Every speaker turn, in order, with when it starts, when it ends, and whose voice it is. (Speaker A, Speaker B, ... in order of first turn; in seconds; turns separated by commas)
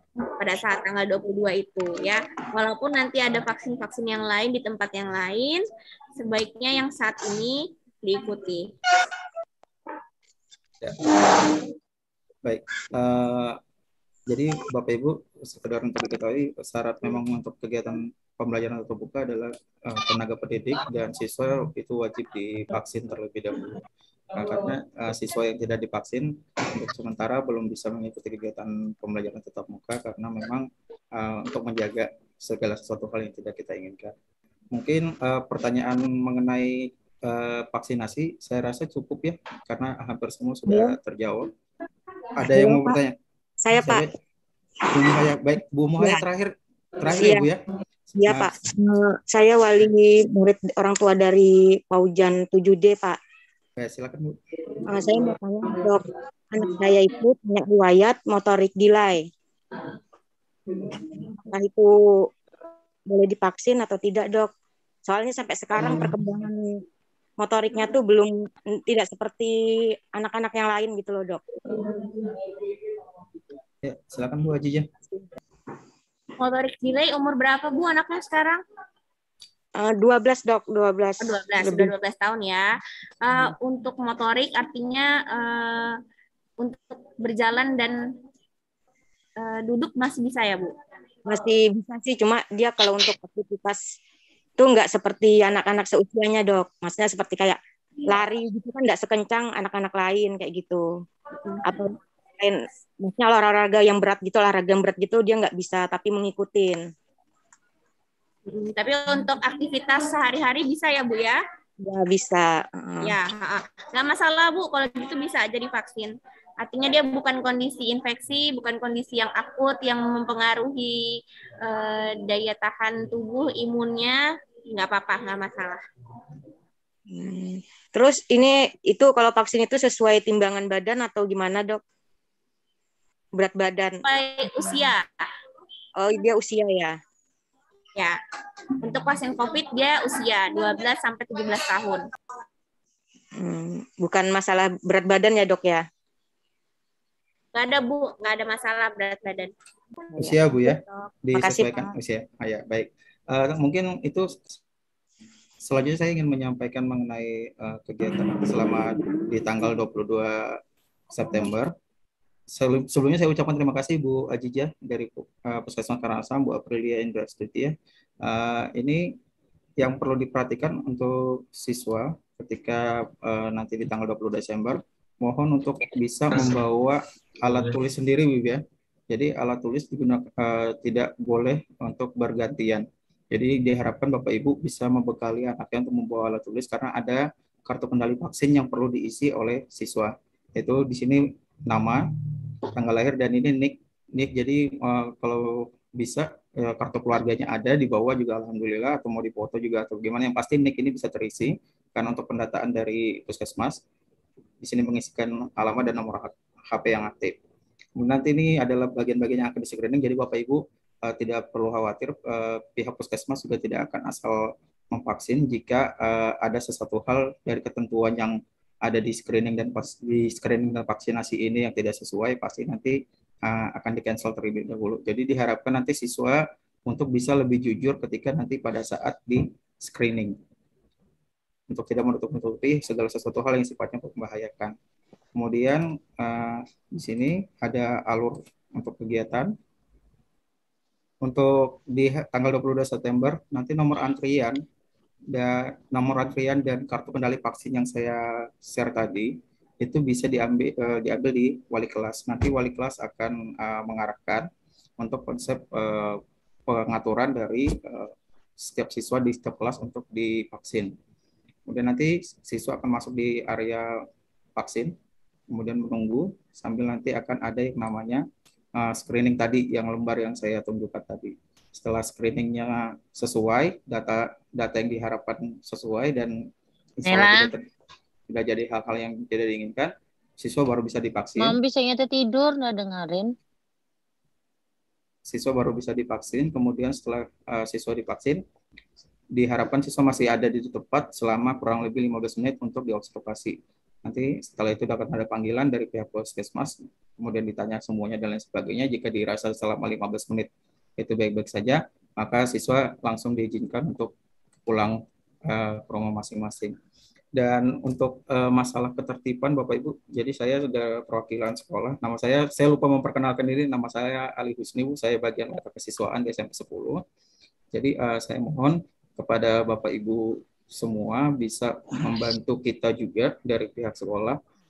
Speaker A: 0.4-5.6, Speaker A: 6.2-8.7, Speaker B: 10.8-11.1, Speaker B: 12.4-13.6, Speaker B: 14.3-23.7, Speaker B: 24.3-34.1, Speaker B: 34.7-41.5, Speaker C: 40.7-41.0, Speaker B: 42.4-43.1, Speaker C: 42.5-43.0, Speaker C: 43.6-44.0, Speaker B: 43.7-44.1, Speaker B: 44.9-48.5, Speaker C: 47.1-47.5, Speaker C: 48.2-53.2, Speaker B: 53.8-54.4, Speaker C: 54.9-59.2, Speaker C: 61.5-61.9, Speaker C: 63.1-64.5, Speaker C: 65.1-66.8, Speaker C: 67.4-68.3, Speaker C: 68.8-69.5, Speaker C: 70.2-71.4, Speaker B: 73.8-74.9, Speaker A: 76.4-78.6, Speaker C: 79.8-81.9, Speaker A: 81.2-82.7, Speaker A: 83.2-85.9, Speaker A: 86.6-88.0, Speaker A: 89.4-90.7, Speaker C: 91.2-93.8, Speaker C: 94.6-100.8, Speaker C: 101.6-106.8, Speaker A: 108.5-111.4, Speaker C: 111.8-113.2, Speaker A: 113.0-121.0, Speaker A: 121.6-125.8, Speaker C: 127.1-131.8, Speaker C: 133.4-134.0, Speaker A: 134.0-135.0, Speaker C: 136.0-136.9, Speaker A: 138.8-142.0, Speaker C: 143.4-145.8, Speaker A: 147.5-149.5, Speaker B: 150.2-154.5, Speaker C: 151.3-151.9, Speaker B: 155.6-160.6, Speaker B: 161.1-161.7, Speaker B: 162.5-169.0, Speaker B: 169.8-192.1, Speaker B: 192.7-203.8, Speaker B: 204.6-207.4, Speaker B: 208.0-230.4, Speaker B: 231.7-234.7, Speaker B: 235.4-239.5, Speaker B: 241.2-244.6, Speaker B: 245.3-249.3, Speaker B: 249.8-254.4, Speaker B: 255.0-260.9, Speaker B: 261.7-263.9, Speaker B: 264.6-264.9, Speaker B: 265.5-268.2, Speaker B: 268.8-276.4, Speaker B: 277.0-277.6, Speaker D: 277.1-277.5, Speaker B: 278.3-281.6, Speaker D: 281.4-283.3, Speaker B: 285.2-288.4, Speaker B: 289.3-304.1, Speaker B: 304.6-306.8, Speaker B: 307.4-317.0, Speaker B: 317.7-324.4